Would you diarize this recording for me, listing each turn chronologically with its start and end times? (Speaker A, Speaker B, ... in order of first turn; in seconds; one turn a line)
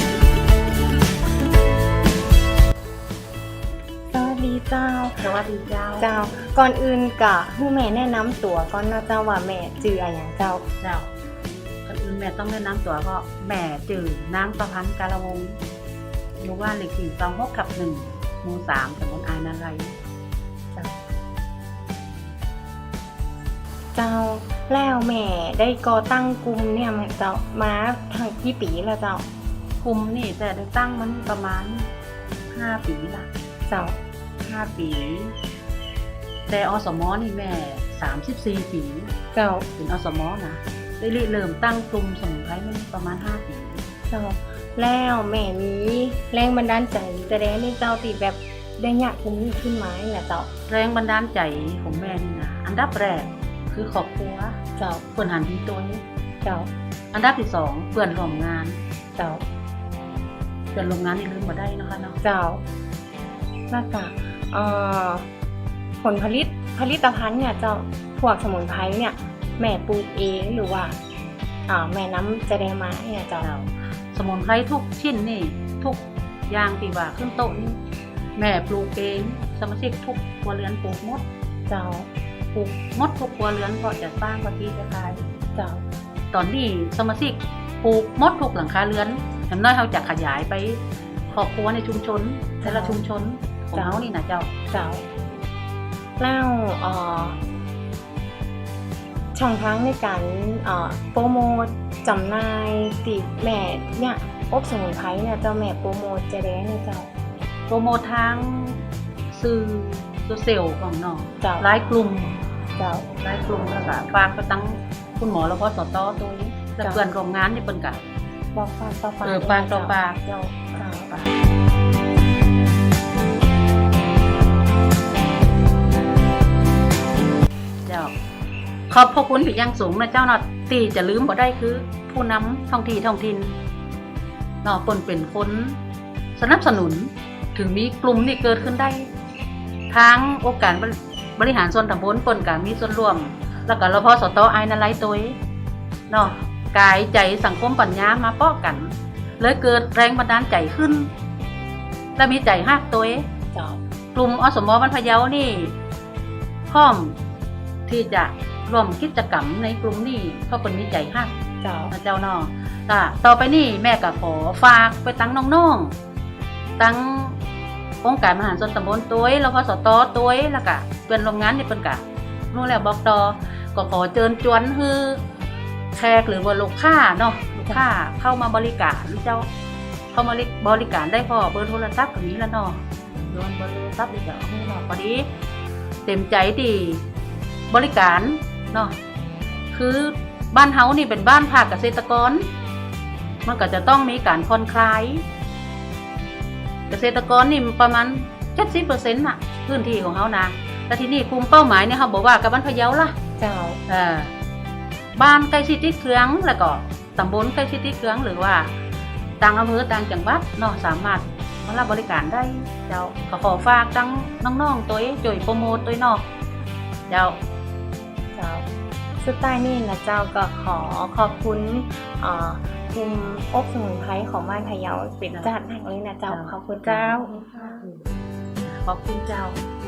Speaker A: 4.1-5.3
Speaker B: 5.2-6.3
Speaker A: 6.0-10.7
Speaker B: 10.8-11.1
Speaker B: 11.8-15.6
Speaker B: 16.4-19.9
Speaker A: 23.9-29.2
Speaker B: 29.8-31.9
Speaker B: 32.5-33.3
Speaker A: 33.7-34.0
Speaker B: 34.4-35.3
Speaker B: 36.5-39.1
Speaker A: 39.3-39.7
Speaker B: 39.8-43.8
Speaker A: 44.1-50.5
Speaker B: 50.7-54.5
Speaker A: 54.8-55.1
Speaker B: 55.1-56.0
Speaker A: 56.4-56.7
Speaker B: 57.1-58.8
Speaker A: 59.2-59.4
Speaker B: 60.7-62.2
Speaker A: 62.2-62.6
Speaker A: 63.7-65.3
Speaker A: 66.0-71.0
Speaker A: 71.7-73.5
Speaker B: 73.4-77.8
Speaker B: 78.4-81.2
Speaker A: 81.7-82.1
Speaker B: 82.5-85.2
Speaker A: 85.5-85.8
Speaker B: 86.3-94.5
Speaker A: 92.6-93.0
Speaker A: 94.7-95.1
Speaker A: 96.2-97.4
Speaker A: 99.3-107.1
Speaker B: 107.7-112.4
Speaker A: 111.4-111.7
Speaker A: 112.8-113.1
Speaker B: 113.2-118.0
Speaker A: 116.8-117.1
Speaker A: 118.5-121.2
Speaker B: 119.2-120.2
Speaker B: 120.7-121.3
Speaker B: 127.8-128.1
Speaker B: 128.9-133.6
Speaker B: 134.6-135.8
Speaker B: 136.3-139.1
Speaker B: 139.9-145.4
Speaker B: 146.1-151.1
Speaker B: 152.2-153.3
Speaker A: 153.5-153.8
Speaker B: 154.1-155.8
Speaker B: 156.7-157.2
Speaker B: 157.9-161.3
Speaker A: 161.6-161.9
Speaker B: 161.9-165.9
Speaker B: 166.8-167.4
Speaker B: 168.0-175.2
Speaker B: 175.9-179.5
Speaker B: 180.1-185.3
Speaker B: 186.0-187.1
Speaker B: 187.7-188.9
Speaker B: 189.7-192.5
Speaker B: 193.4-195.2
Speaker B: 196.9-203.1
Speaker A: 203.4-203.8
Speaker B: 203.9-204.3
Speaker B: 205.1-208.7
Speaker B: 209.4-216.2
Speaker B: 217.1-217.4
Speaker A: 218.3-218.7
Speaker A: 219.2-227.7
Speaker B: 226.3-228.1
Speaker B: 228.6-229.6